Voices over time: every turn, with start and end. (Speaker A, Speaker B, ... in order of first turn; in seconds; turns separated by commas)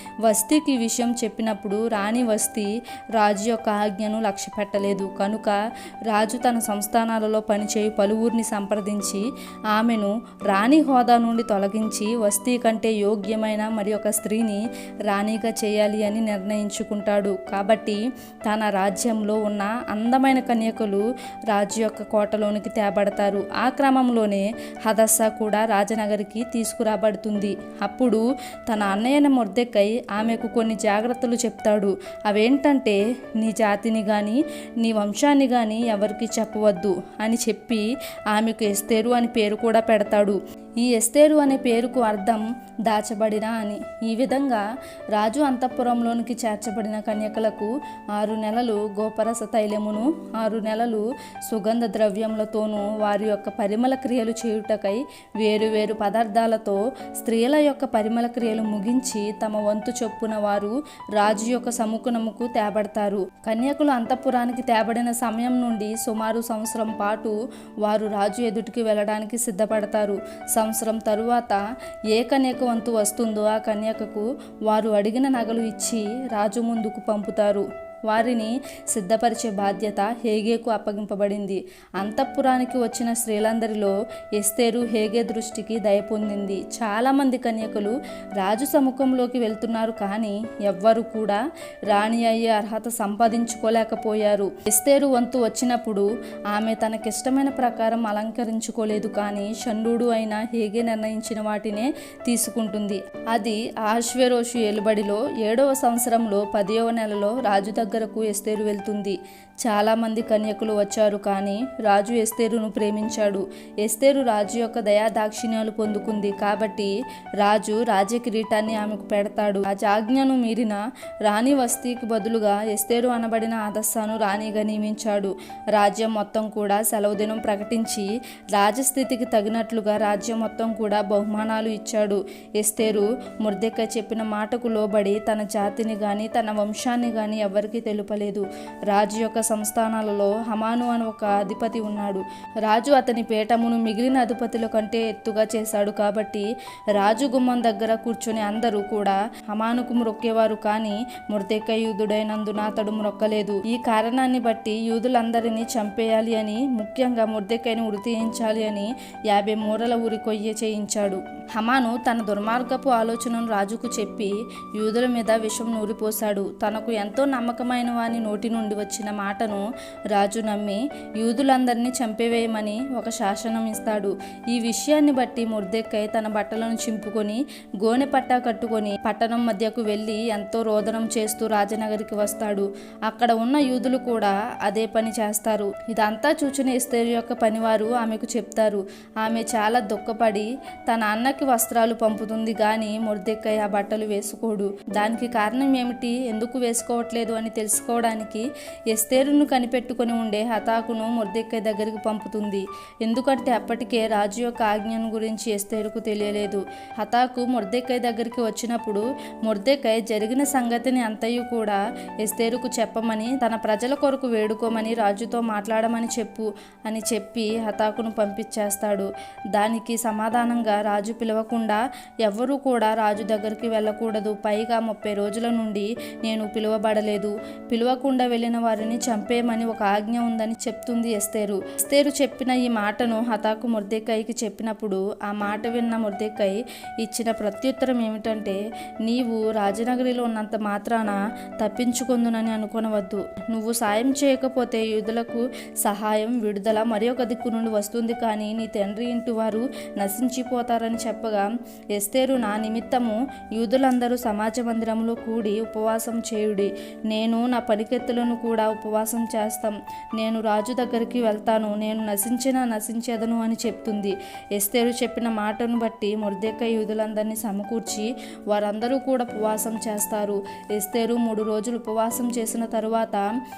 Speaker A: 0.2-273.2